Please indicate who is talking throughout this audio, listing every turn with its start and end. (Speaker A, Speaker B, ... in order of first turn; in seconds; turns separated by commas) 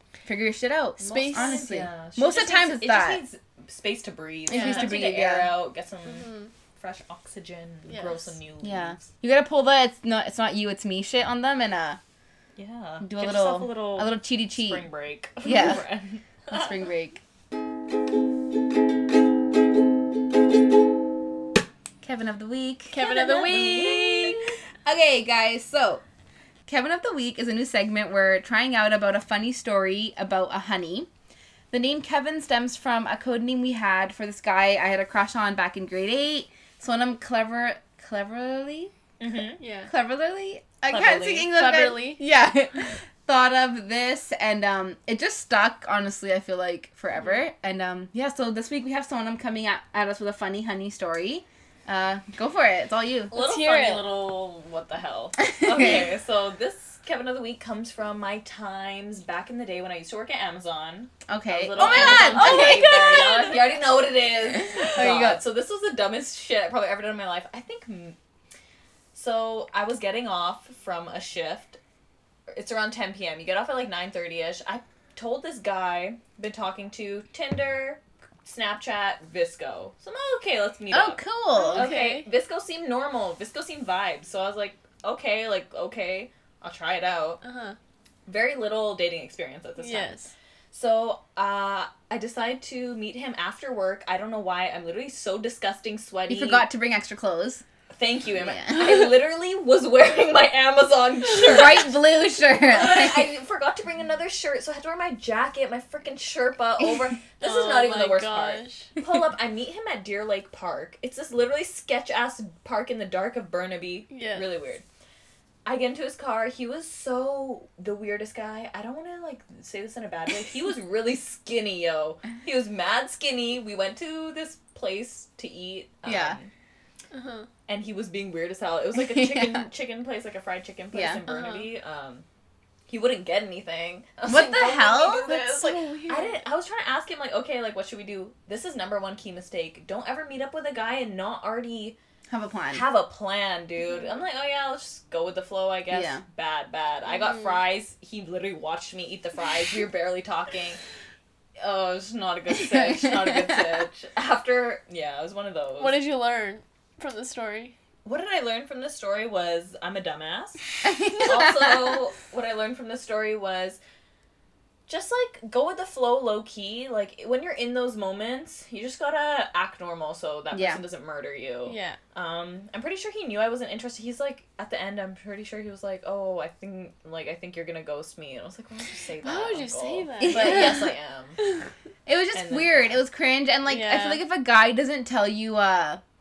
Speaker A: 0.2-3.2, Speaker B: 1.0-9.0, Speaker C: 1.0-1.7, Speaker A: 4.5-5.6, Speaker C: 4.5-5.1, Speaker C: 6.1-6.5, Speaker C: 7.9-8.3, Speaker A: 8.6-12.0, Speaker B: 12.6-16.8, Speaker A: 13.0-14.9, Speaker A: 15.4-15.8, Speaker A: 16.5-17.2, Speaker A: 22.0-26.0, Speaker C: 22.9-24.4, Speaker B: 23.0-24.5, Speaker A: 26.7-31.1, Speaker A: 31.7-38.9, Speaker B: 39.2-39.6, Speaker C: 39.6-39.9, Speaker A: 39.9-53.4, Speaker B: 40.9-41.5, Speaker C: 41.5-42.2, Speaker B: 53.3-68.2, Speaker C: 53.4-54.0, Speaker A: 55.6-56.1, Speaker A: 61.3-63.5, Speaker C: 61.8-63.8, Speaker A: 64.8-65.4, Speaker B: 69.1-71.8, Speaker B: 72.5-87.4, Speaker A: 80.9-81.9, Speaker C: 81.5-82.3, Speaker C: 87.4-87.8, Speaker B: 88.3-90.1, Speaker C: 89.8-90.3, Speaker B: 90.7-96.7, Speaker A: 96.3-97.7, Speaker B: 97.9-102.0, Speaker A: 98.4-98.9, Speaker A: 101.4-103.3, Speaker B: 102.6-114.8, Speaker C: 107.4-108.9, Speaker C: 114.1-114.5, Speaker B: 115.7-126.5, Speaker A: 126.1-126.4, Speaker C: 127.1-127.5, Speaker B: 127.7-132.2, Speaker A: 129.0-129.6, Speaker A: 130.9-131.2, Speaker C: 131.3-131.7, Speaker B: 132.9-142.0, Speaker A: 134.3-135.6, Speaker C: 135.4-136.4, Speaker A: 142.3-142.9, Speaker B: 142.7-150.8, Speaker A: 145.9-146.2, Speaker B: 151.6-156.0, Speaker C: 155.8-157.8, Speaker B: 158.1-163.8, Speaker A: 160.8-162.0, Speaker B: 164.9-181.4, Speaker A: 170.5-170.8, Speaker C: 171.7-172.0, Speaker C: 179.2-180.8, Speaker A: 180.2-180.9, Speaker A: 182.1-186.0, Speaker B: 182.3-183.0, Speaker C: 183.7-184.2